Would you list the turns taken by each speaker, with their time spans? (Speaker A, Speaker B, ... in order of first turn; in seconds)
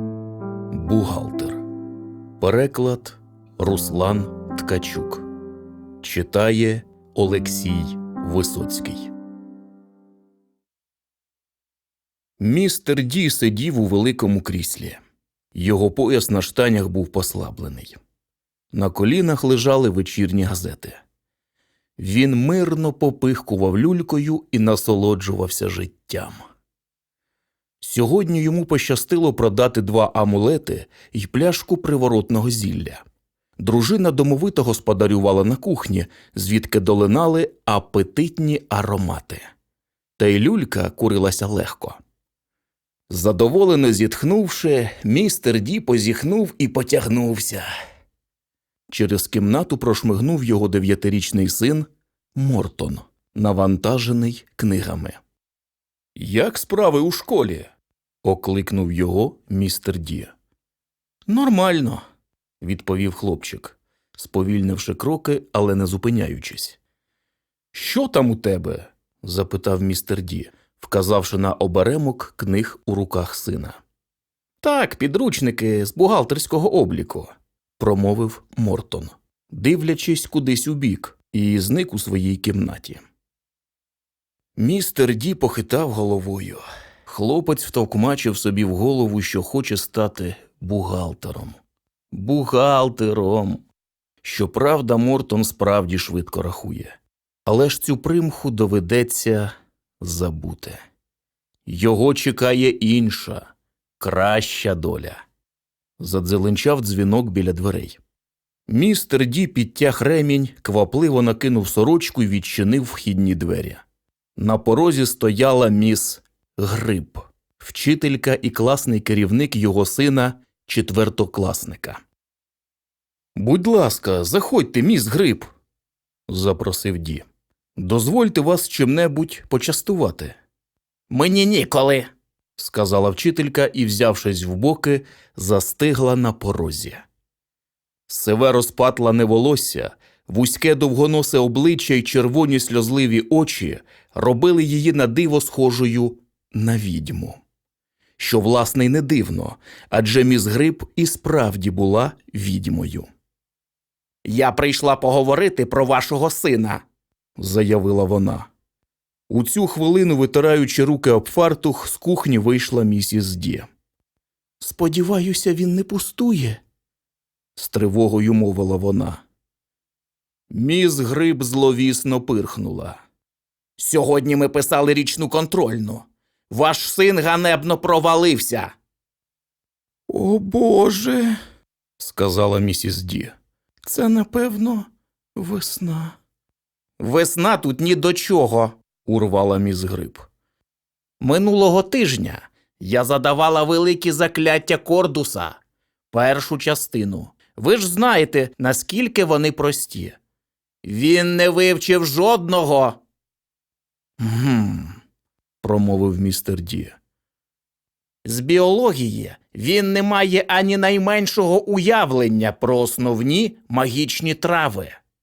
Speaker A: 0.7-1.6, 2.4-5.2, 6.0-9.1, 12.4-15.0, 15.5-18.0, 18.7-21.0, 22.0-26.4, 27.8-33.0, 33.6-39.4, 40.2-42.0, 43.1-47.7, 48.9-55.2, 56.1-57.7, 58.2-60.3, 61.3-62.0, 62.6-66.8, 67.7-73.8, 74.6-83.0, 84.6-91.6, 92.1-93.6, 94.2-100.8, 101.7-105.2, 106.0-108.0, 108.7-113.8, 114.3-122.0, 123.4-125.5, 126.3-127.2, 127.8-130.4, 131.1-137.0, 138.1-147.4, 148.2-153.1, 154.2-156.8, 157.4-158.5, 159.3-163.7, 164.6-166.6, 167.6-169.2, 170.5-173.0, 173.8-178.7, 180.1-181.4, 182.0-183.3, 183.8-186.2, 187.0-190.2, 191.2-195.6, 196.1-200.2, 200.8-203.0, 204.2-205.0, 205.6-207.0, 208.2-214.9